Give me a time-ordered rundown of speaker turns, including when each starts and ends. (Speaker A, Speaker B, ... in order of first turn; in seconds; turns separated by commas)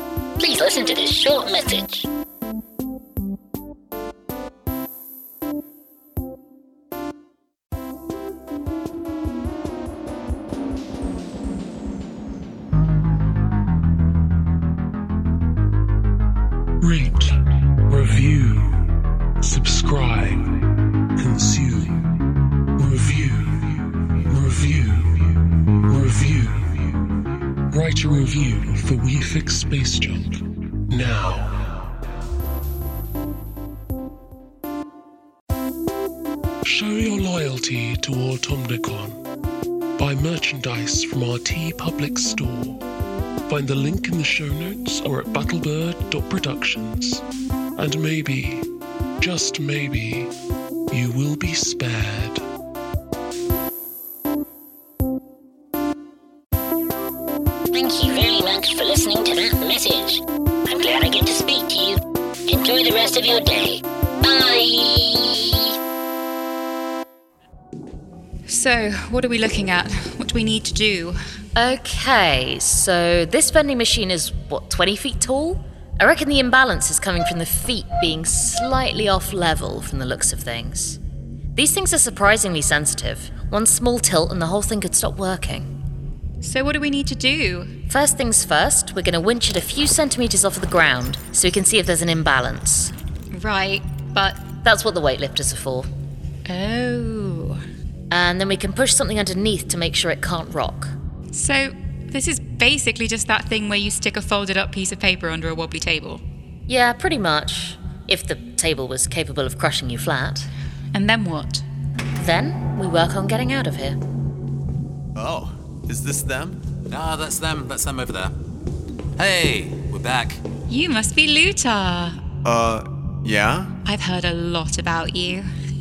Speaker A: 0.4-2.1, Speaker B: 16.8-17.3, Speaker B: 17.9-18.8, Speaker B: 19.4-20.5, Speaker B: 21.2-22.0, Speaker B: 22.8-25.3, Speaker B: 25.9-26.8, Speaker B: 27.7-30.4, Speaker B: 30.9-31.6, Speaker B: 36.6-39.2, Speaker B: 40.0-42.8, Speaker B: 43.5-47.2, Speaker B: 47.8-48.7, Speaker B: 49.2-50.3, Speaker B: 50.9-52.4, Speaker A: 57.7-65.7, Speaker C: 68.5-71.2, Speaker D: 71.5-81.0, Speaker D: 81.5-85.7, Speaker C: 86.4-87.7, Speaker D: 87.9-92.9, Speaker C: 93.3-94.5, Speaker D: 94.6-95.9, Speaker C: 96.5-97.6, Speaker D: 98.1-100.9, Speaker C: 101.3-106.2, Speaker D: 106.7-110.5, Speaker C: 110.9-111.7, Speaker D: 112.2-114.0, Speaker E: 115.1-116.6, Speaker F: 116.9-118.3, Speaker F: 119.2-120.4, Speaker C: 120.7-122.2, Speaker E: 122.4-123.7, Speaker C: 123.8-125.5